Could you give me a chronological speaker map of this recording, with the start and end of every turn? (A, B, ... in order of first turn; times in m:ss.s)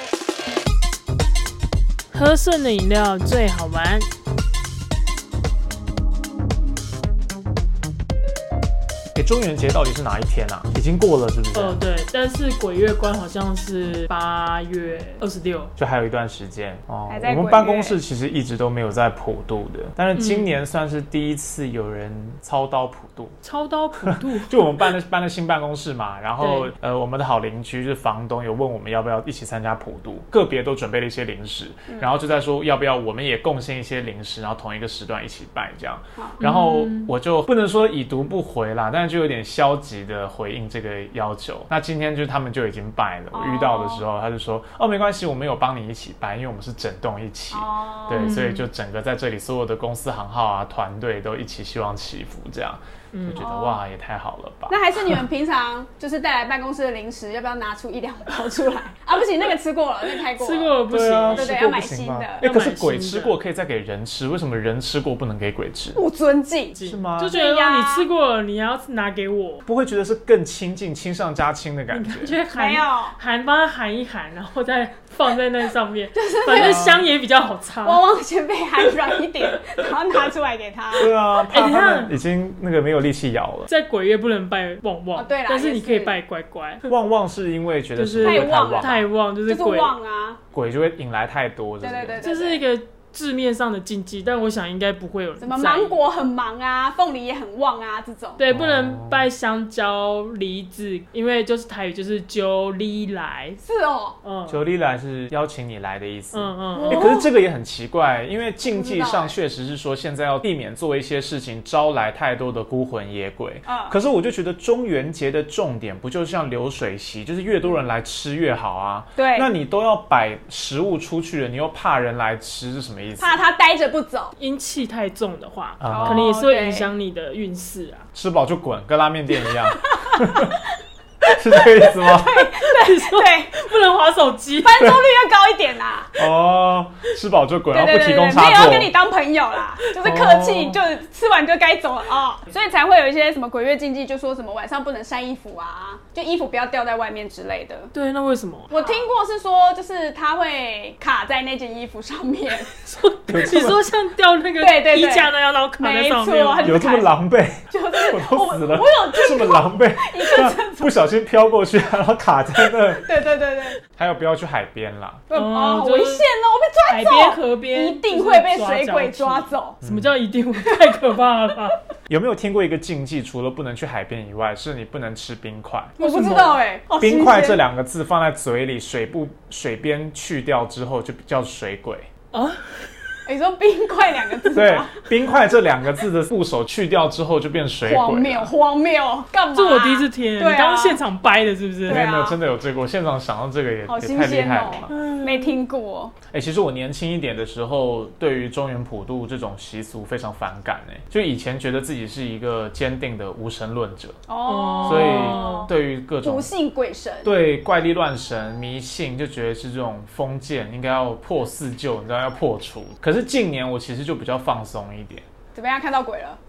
0:02.1-0:04.1 A
0:09.1-0:11.8 B
0:11.5-0:15.7 A
0:15.8-0:23.3 B
0:17.1-0:18.0 C
0:20.1-0:20.5 A
0:23.4-0:24.6 A
0:24.1-0:55.2 B
0:26.4-0:26.7 A
0:36.4-0:37.1 A
0:43.3-0:44.0 C
0:47.5-0:48.4 C
0:48.1-0:48.6 A
0:53.1-0:53.4 A
0:53.3-0:53.8 C
0:54.7-1:00.8 C
1:00.4-1:01.6 A
1:00.9-1:06.0 B
1:01.3-1:02.5 C
1:02.4-1:03.4 A
1:05.9-1:06.8 C
1:06.7-1:09.6 A
1:06.8-1:07.4 B
1:07.3-1:08.1 C
1:09.7-1:12.4 B
1:11.9-1:18.0 A
1:12.5-1:13.2 C
1:16.1-1:17.0 C
1:16.6-1:17.0 B
1:17.8-1:21.1 C
1:21.0-1:23.7 B
1:21.5-1:22.1 A
1:23.7-1:26.9 A
1:25.1-1:26.2 C
1:26.9-1:29.0 B
1:28.0-1:29.9 A
1:28.2-1:30.4 C
1:30.5-1:32.2 B
1:31.8-1:32.6 C
1:32.2-1:36.0 A
1:35.4-1:38.4 C
1:38.4-1:43.6 A
1:38.5-1:39.3 B
1:43.6-1:44.2 C
1:44.2-1:44.6 A
1:44.5-2:03.4 B
1:46.3-1:47.1 A
1:46.7-1:47.3 C
1:48.6-1:49.4 C
1:53.7-1:54.0 C
1:59.2-1:59.5 C
2:03.2-2:04.3 C
2:04.4-2:08.1 A
2:05.8-2:06.3 B
2:05.9-2:06.9 C
2:08.1-2:10.6 B
2:09.9-2:10.2 C
2:11.2-2:12.5 B
2:11.6-2:13.6 C
2:11.8-2:14.8 A
2:14.6-2:16.2 C
2:16.2-2:18.9 B
2:17.7-2:27.9 C
2:19.8-2:20.2 A
2:20.0-2:20.8 B
2:27.9-2:29.0 A
2:28.7-2:32.7 C
2:32.7-2:36.8 A
2:33.3-2:33.8 B
2:34.6-2:37.1 C
2:36.6-2:43.1 B
2:37.7-2:41.0 C
2:42.9-2:43.8 C
2:43.9-2:45.2 B
2:45.3-2:49.8 C
2:45.3-2:46.2 A
2:46.9-2:51.8 A
2:49.8-2:50.1 B
2:50.6-2:51.0 C
2:52.1-2:56.0 B
2:56.0-2:57.6 C
2:56.0-2:56.6 A
2:57.0-3:02.1 B
3:02.3-3:03.2 A
3:03.3-3:05.0 C
3:04.5-3:08.5 B
3:07.8-3:11.0 C
3:09.5-3:12.0 A
3:11.9-3:12.4 C
3:11.9-3:14.9 B
3:13.9-3:16.1 C
3:14.9-3:15.5 A
3:16.3-3:24.2 B
3:24.3-3:27.3 C
3:24.4-3:25.7 A
3:24.8-3:26.5 B
3:27.2-3:35.2 B
3:35.5-3:36.4 C